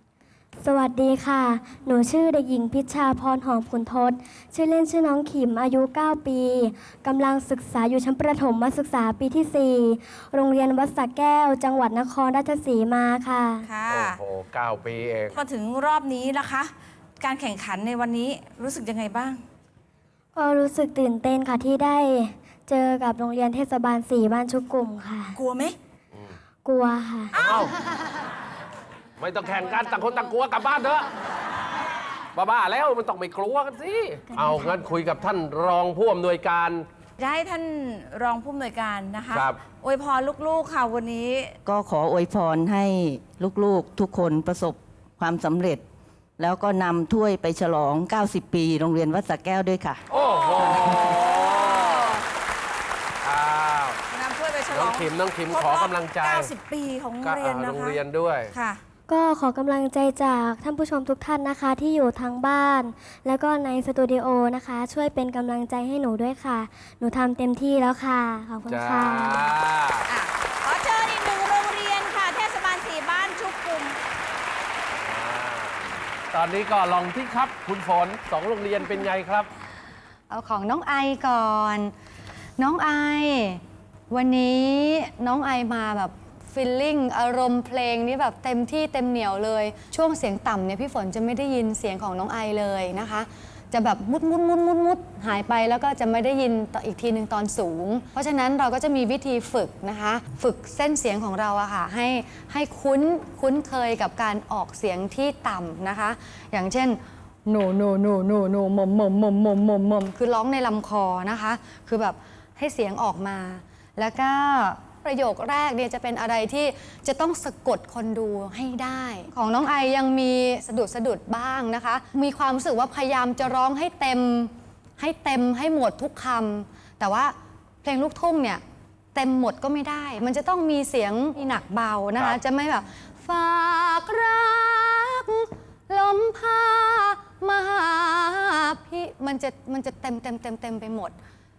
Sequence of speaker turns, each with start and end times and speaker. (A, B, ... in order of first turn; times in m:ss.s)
0:00.6-0:13.6 A
0:13.6-0:14.2 B
0:13.8-0:15.4 C
0:15.3-0:19.4 B
0:20.3-0:25.4 A
0:25.3-0:25.8 B
0:26.6-0:27.4 A
0:27.3-0:27.7 B
0:27.4-0:27.7 C
0:29.2-0:31.1 C
0:32.3-0:36.8 C
0:37.2-0:41.6 B
0:39.3-0:39.6 C
0:41.6-0:45.8 D
0:46.4-0:50.0 D
0:50.1-0:52.1 C
0:50.1-0:52.2 B
0:53.2-0:54.0 C
0:54.1-0:58.8 B
0:54.7-0:56.5 C
0:57.2-0:58.5 C
0:59.1-1:09.4 A
1:08.6-1:10.0 C
1:10.1-1:14.0 B
1:15.0-1:19.5 C
1:20.3-1:21.9 E
1:22.6-2:08.6 E
2:09.1-2:21.2 E